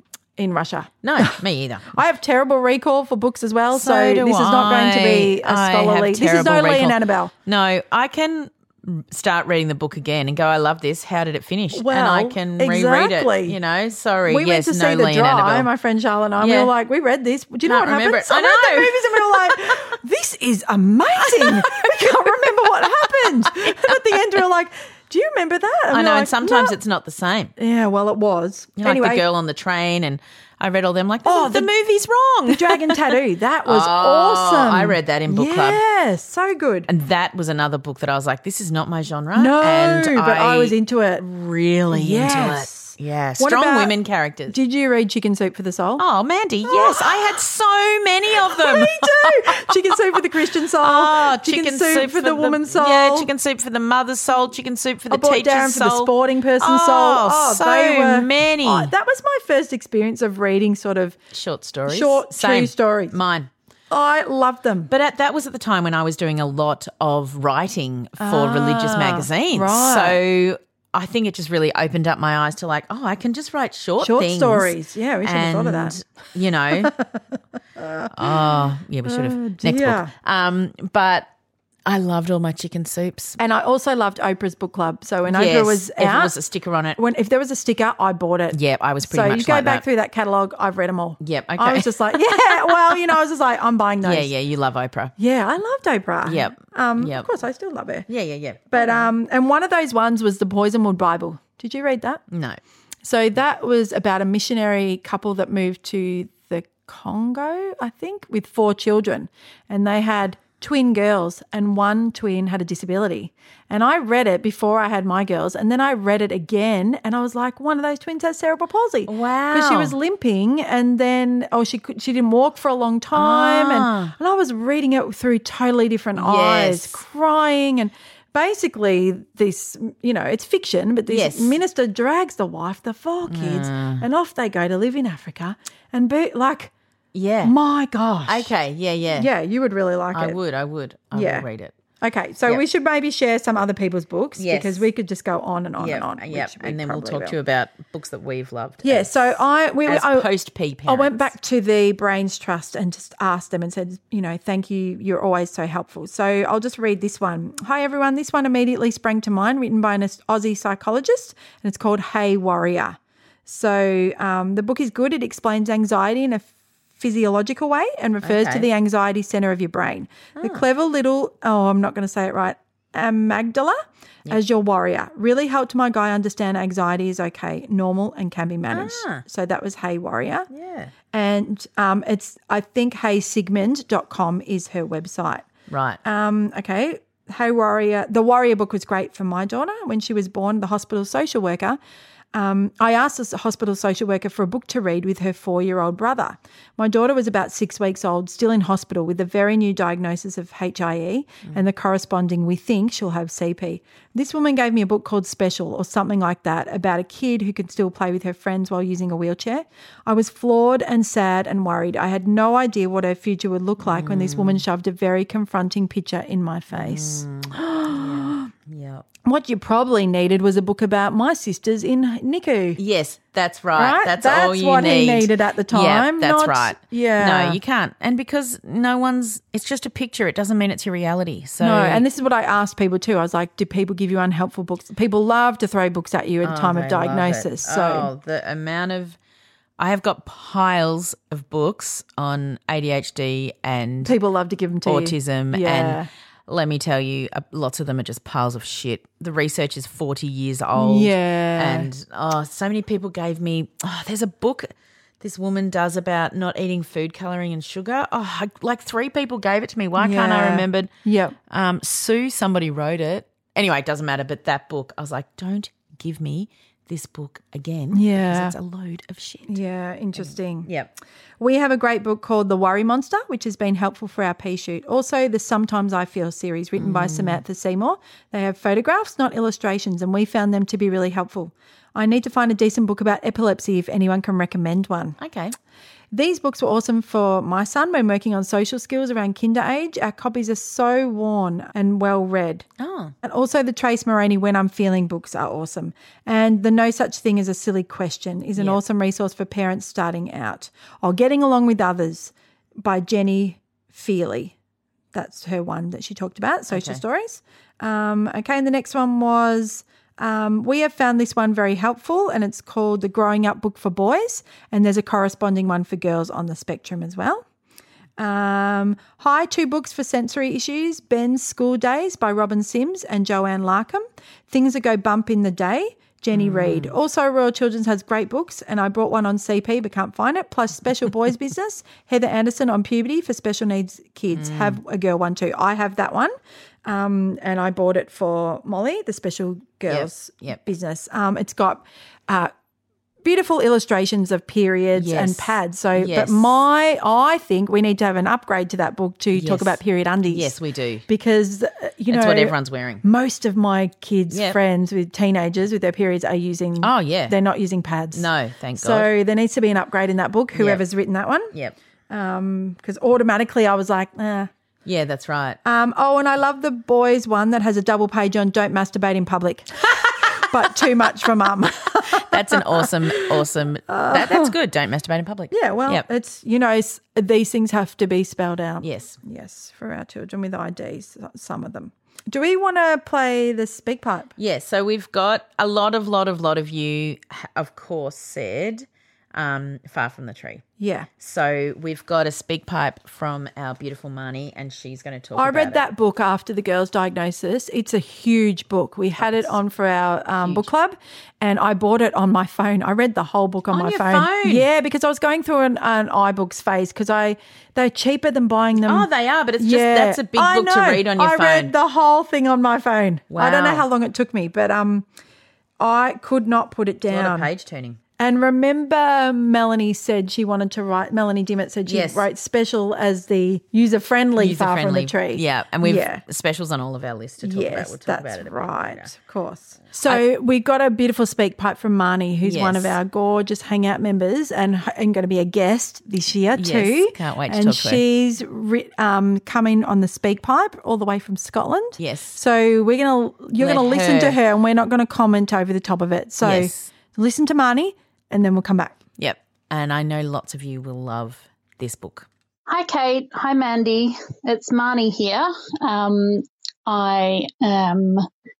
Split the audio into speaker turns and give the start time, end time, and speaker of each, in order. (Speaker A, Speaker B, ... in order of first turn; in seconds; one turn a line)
Speaker A: 0.4-1.4
Speaker B: 1.0-2.0
Speaker A: 1.9-7.3
Speaker B: 3.7-15.7
Speaker A: 11.7-13.6
Speaker A: 14.3-26.8
Speaker B: 16.4-16.7
Speaker B: 17.6-19.9
Speaker B: 21.2-24.4
Speaker B: 25.9-27.5
Speaker A: 27.6-29.2
Speaker B: 28.8-35.8
Speaker A: 31.2-31.7
Speaker A: 32.5-36.9
Speaker B: 36.9-44.5
Speaker A: 39.3-41.2
Speaker A: 41.9-43.9
Speaker A: 44.5-46.0
Speaker B: 46.0-58.9
Speaker A: 46.7-47.2
Speaker A: 48.4-53.3
Speaker A: 55.1-61.1
Speaker B: 61.3-63.5
Speaker A: 61.9-63.1
Speaker A: 63.9-64.9
Speaker B: 64.9-77.0
Speaker A: 68.2-70.2
Speaker A: 74.0-76.0
Speaker A: 76.7-77.2
Speaker A: 77.8-80.1
Speaker B: 78.1-81.3
Speaker B: 81.8-83.4
Speaker A: 83.4-86.3
Speaker B: 85.2-87.0
Speaker A: 87.0-94.3
Speaker B: 88.5-89.8
Speaker B: 91.2-93.2
Speaker B: 94.0-95.1
Speaker A: 95.2-98.1
Speaker B: 96.2-97.3
Speaker B: 98.1-99.1
Speaker A: 98.7-102.2
Speaker B: 102.3-102.6
Speaker A: 103.0-136.7
Speaker B: 119.1-119.9
Speaker B: 123.1-124.1
Speaker B: 126.2-127.0
Speaker B: 131.1-131.6
Speaker B: 133.3-134.0
Speaker B: 137.1-137.5
Speaker A: 137.4-138.5
Speaker B: 138.2-139.3
Speaker A: 139.1-140.4
Speaker B: 140.1-141.7
Speaker A: 141.1-141.5
Speaker A: 142.0-147.3
Speaker B: 144.4-144.9
Speaker B: 145.8-151.3
Speaker A: 148.8-150.3
Speaker A: 150.8-180.5
Speaker B: 168.2-168.7
Speaker B: 170.4-170.6
Speaker B: 178.7-179.2
Speaker B: 180.5-180.9
Speaker A: 181.1-185.4
Speaker B: 185.7-186.0
Speaker A: 186.0-191.8
Speaker A: 192.3-218.5
Speaker B: 213.8-214.6
Speaker B: 216.7-219.0
Speaker A: 219.2-222.8
Speaker B: 222.8-232.0
Speaker A: 223.7-227.6
Speaker A: 231.6-238.1
Speaker B: 236.4-239.2
Speaker B: 239.8-244.2
Speaker A: 244.0-246.1
Speaker B: 244.8-260.9
Speaker A: 250.8-251.9
Speaker A: 260.0-261.4
Speaker B: 261.5-269.6
Speaker A: 267.9-268.5
Speaker A: 269.5-270.7
Speaker B: 270.1-270.9
Speaker A: 271.4-285.2
Speaker B: 276.8-277.4
Speaker B: 285.2-285.5
Speaker A: 286.1-292.6
Speaker B: 292.8-293.1
Speaker A: 293.2-304.5
Speaker B: 298.6-298.8
Speaker A: 305.1-317.4
Speaker B: 306.7-307.0
Speaker A: 318.2-336.3
Speaker B: 326.3-326.9
Speaker B: 334.3-334.8
Speaker A: 336.9-342.5
Speaker B: 339.9-340.6
Speaker A: 343.2-350.6
Speaker B: 344.9-346.5
Speaker B: 349.3-351.0
Speaker A: 351.1-361.5
Speaker B: 352.1-353.0
Speaker B: 354.3-354.6
Speaker B: 356.8-357.4
Speaker B: 358.1-359.1
Speaker B: 360.5-360.8
Speaker A: 362.1-364.5
Speaker B: 364.8-365.6
Speaker A: 365.6-374.5
Speaker B: 372.1-376.0
Speaker A: 375.5-384.3
Speaker B: 378.8-379.2
Speaker B: 384.4-390.6
Speaker A: 390.8-391.1
Speaker B: 391.2-395.9
Speaker A: 395.3-415.1
Speaker B: 399.2-399.5
Speaker B: 400.4-400.7
Speaker B: 403.7-404.7
Speaker B: 408.8-411.7
Speaker B: 413.3-413.9
Speaker A: 415.8-417.5
Speaker B: 417.1-418.0
Speaker A: 418.2-426.2
Speaker B: 421.9-422.2
Speaker B: 424.4-429.1
Speaker A: 427.4-449.0
Speaker B: 432.4-433.0
Speaker B: 436.5-438.0
Speaker B: 442.0-442.4
Speaker B: 443.6-444.4
Speaker B: 446.4-446.9
Speaker B: 449.2-452.3
Speaker C: 452.7-458.3